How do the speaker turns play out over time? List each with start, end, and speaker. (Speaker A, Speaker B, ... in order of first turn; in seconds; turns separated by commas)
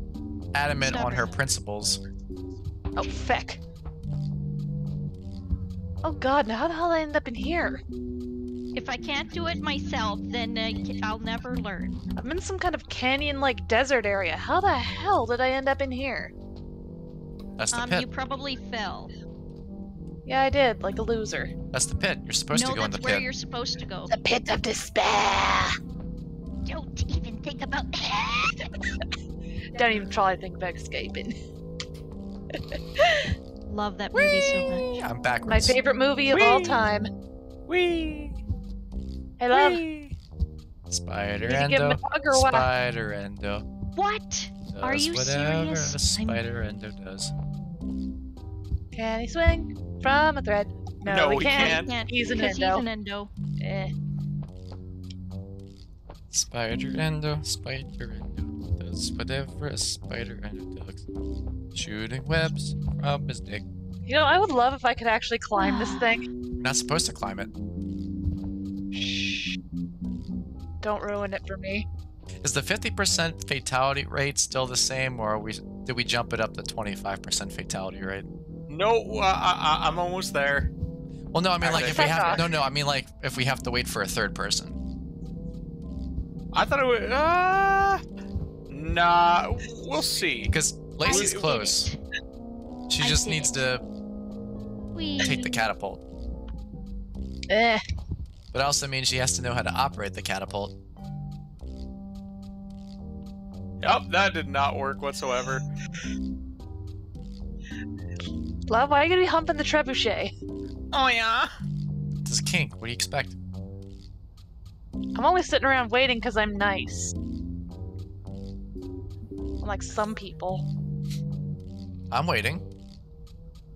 Speaker A: 0.5-2.0, Speaker B: 0.8-1.4, Speaker C: 3.0-3.6, Speaker C: 6.0-7.8, Speaker B: 8.7-12.0, Speaker C: 12.2-16.3, Speaker A: 17.6-18.1, Speaker B: 17.7-19.1, Speaker C: 20.2-21.5, Speaker A: 21.7-23.2, Speaker B: 22.5-24.1, Speaker C: 24.1-25.8, Speaker B: 26.6-28.7, Speaker C: 29.7-31.3, Speaker C: 32.7-33.3, Speaker B: 33.7-35.0, Speaker C: 34.1-34.8, Speaker A: 35.0-35.8, Speaker C: 35.5-37.1, Speaker D: 36.3-36.9, Speaker D: 37.7-38.4, Speaker C: 39.4-39.8, Speaker D: 39.5-40.1, Speaker A: 40.9-43.6, Speaker C: 41.5-42.7, Speaker B: 44.0-46.4, Speaker A: 44.7-47.3, Speaker C: 48.9-52.8, Speaker D: 51.0-51.9, Speaker B: 51.4-53.3, Speaker C: 53.6-53.9, Speaker A: 56.3-61.0, Speaker A: 61.7-63.6, Speaker C: 64.0-66.3, Speaker B: 65.6-66.2, Speaker A: 66.6-67.5, Speaker C: 68.9-69.5, Speaker C: 70.8-71.8, Speaker A: 72.4-78.2, Speaker D: 78.7-80.7, Speaker A: 81.3-84.8, Speaker D: 81.6-82.4, Speaker C: 81.7-82.4, Speaker D: 86.5-88.0, Speaker D: 88.7-90.5, Speaker A: 90.5-91.9, Speaker B: 91.0-91.9, Speaker D: 91.1-91.3, Speaker A: 92.9-93.8, Speaker B: 93.0-93.6, Speaker B: 94.9-95.5, Speaker A: 95.2-96.0, Speaker C: 97.5-97.8, Speaker A: 98.5-100.7, Speaker D: 103.8-105.7, Speaker C: 108.7-110.3, Speaker D: 110.9-111.5, Speaker A: 112.2-113.3, Speaker C: 115.1-117.1, Speaker C: 119.6-120.6, Speaker A: 122.1-122.6